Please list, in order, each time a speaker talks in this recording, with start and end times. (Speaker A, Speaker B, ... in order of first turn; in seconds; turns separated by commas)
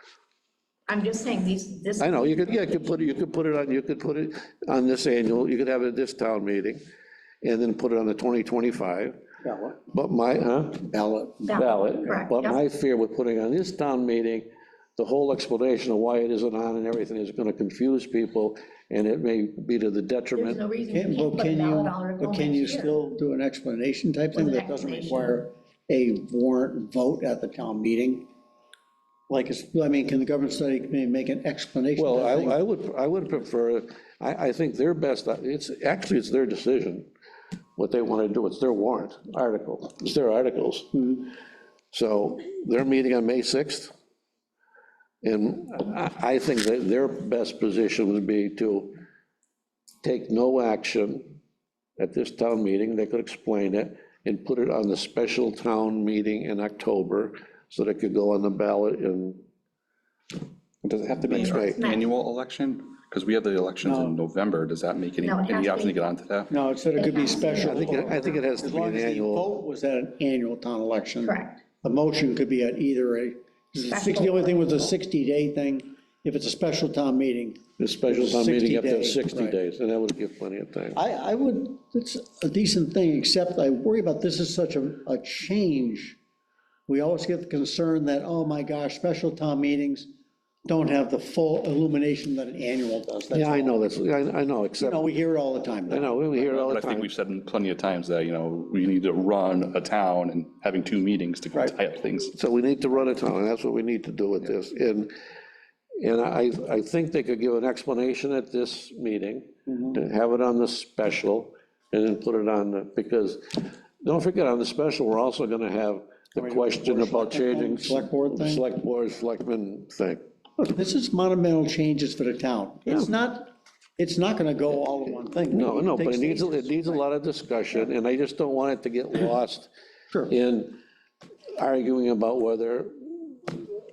Speaker A: 0.9-2.9, Speaker B: 2.0-6.8, Speaker B: 7.4-9.2, Speaker C: 9.4-9.8, Speaker B: 9.9-10.9, Speaker C: 10.8-11.7, Speaker A: 11.5-12.6, Speaker B: 11.5-20.6, Speaker A: 20.3-23.0, Speaker C: 20.9-28.3, Speaker A: 24.3-25.4, Speaker C: 29.3-32.6, Speaker B: 32.0-37.1, Speaker B: 37.8-41.3, Speaker B: 41.9-43.9, Speaker B: 45.2-48.9, Speaker B: 50.0-51.3, Speaker B: 52.0-59.4, Speaker D: 60.8-66.5, Speaker B: 61.3-61.7, Speaker A: 61.7-62.0, Speaker C: 63.8-64.2, Speaker A: 65.2-66.0, Speaker C: 66.5-79.6, Speaker A: 66.9-68.4, Speaker B: 67.6-69.5, Speaker A: 71.2-71.6, Speaker A: 73.9-74.6, Speaker B: 77.8-81.0, Speaker C: 80.9-86.2, Speaker C: 86.9-90.1, Speaker C: 90.7-93.8, Speaker B: 93.3-95.1, Speaker C: 94.8-96.2, Speaker B: 95.9-97.1, Speaker D: 96.3-102.3, Speaker B: 102.3-105.1, Speaker B: 106.0-120.2, Speaker C: 109.7-109.9, Speaker C: 116.4-118.6, Speaker C: 120.6-127.0, Speaker B: 125.5-129.7, Speaker B: 130.3-130.8, Speaker B: 131.6-133.6